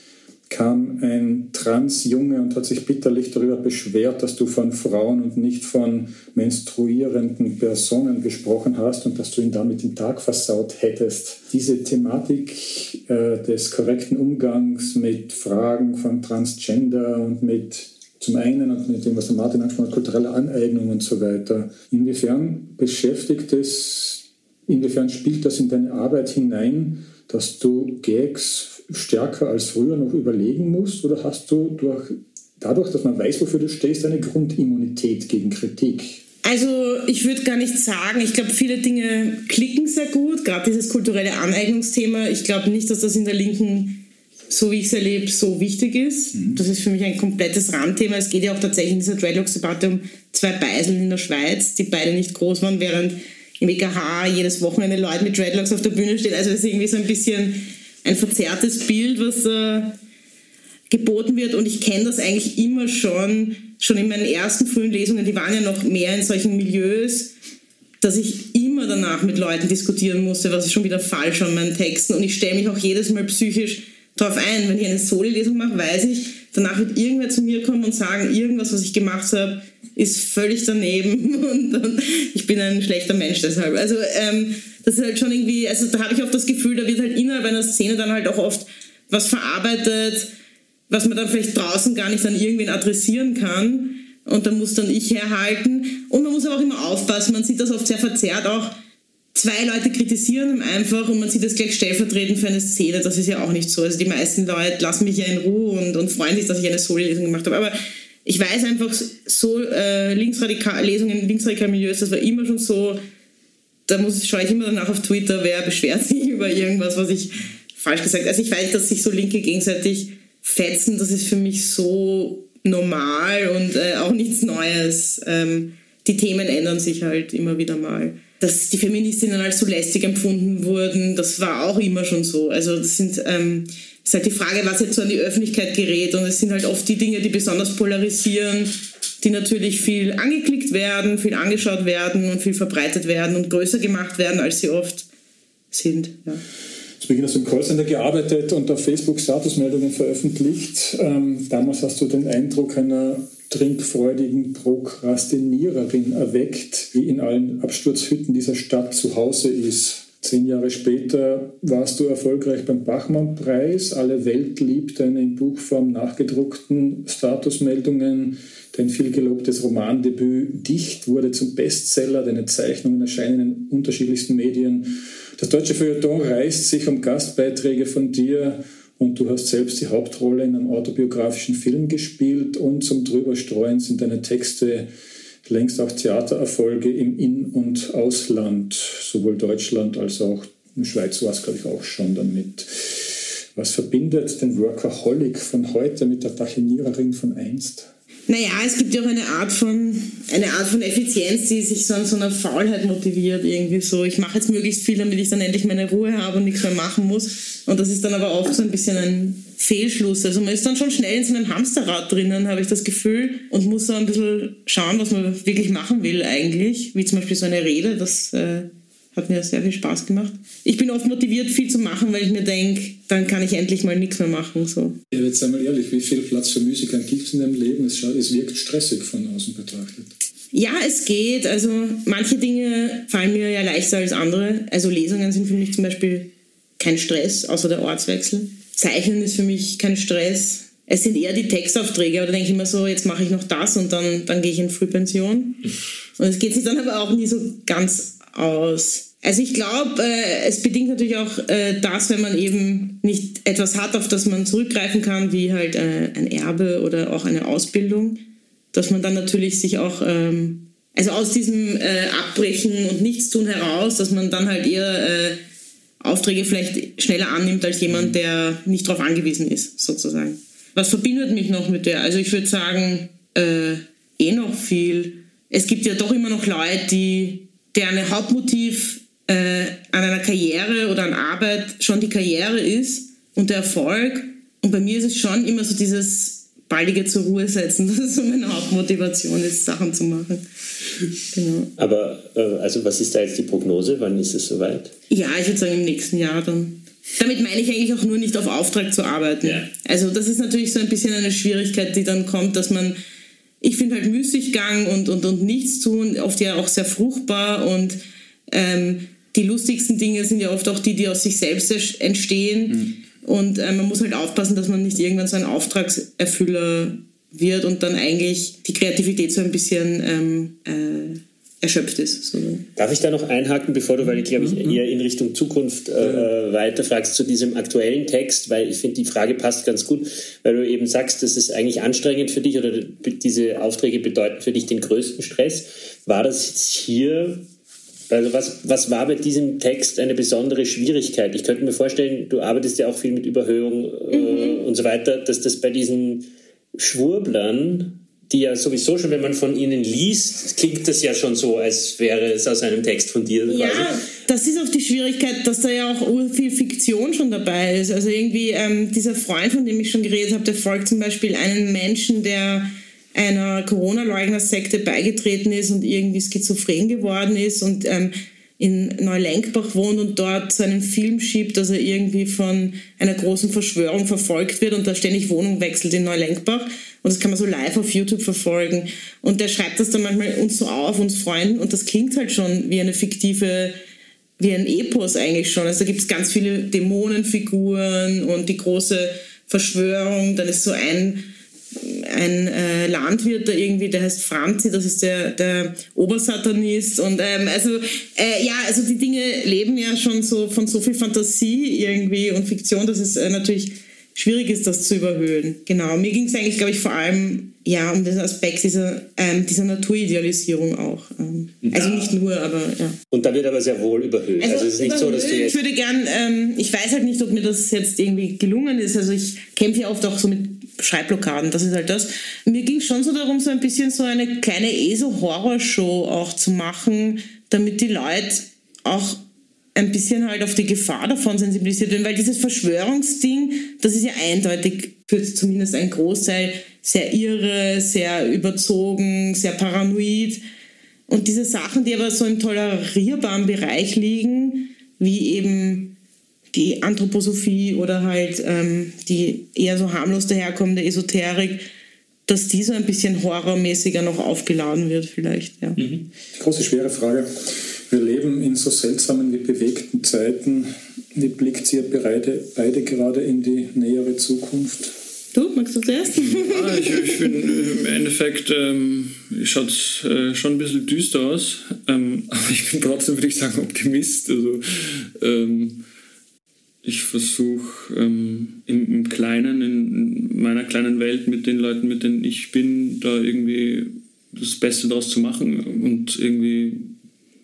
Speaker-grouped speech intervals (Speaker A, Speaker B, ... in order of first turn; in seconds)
Speaker A: 0.5-36.2, 147.0-184.9, 185.4-197.9, 225.1-230.1, 324.4-324.7, 456.3-464.9
Speaker B: 36.4-60.0, 60.9-67.3, 68.0-90.3, 90.9-98.8, 99.3-113.0, 113.9-145.1, 145.7-146.4, 198.3-225.0, 230.5-245.6, 246.2-258.2, 258.7-265.4, 266.0-290.4, 291.3-291.7, 295.1-303.0, 303.6-308.0, 308.5-322.7, 344.1-344.6, 353.5-383.8, 384.4-413.0, 414.4-429.2, 429.8-440.4, 441.1-446.0, 446.5-451.7, 452.3-455.8, 465.3-467.1
Speaker C: 291.8-294.9, 322.8-337.5, 338.1-354.0, 411.6-412.0, 413.1-415.6, 455.8-456.0
Speaker D: 466.3-475.8, 476.8-486.9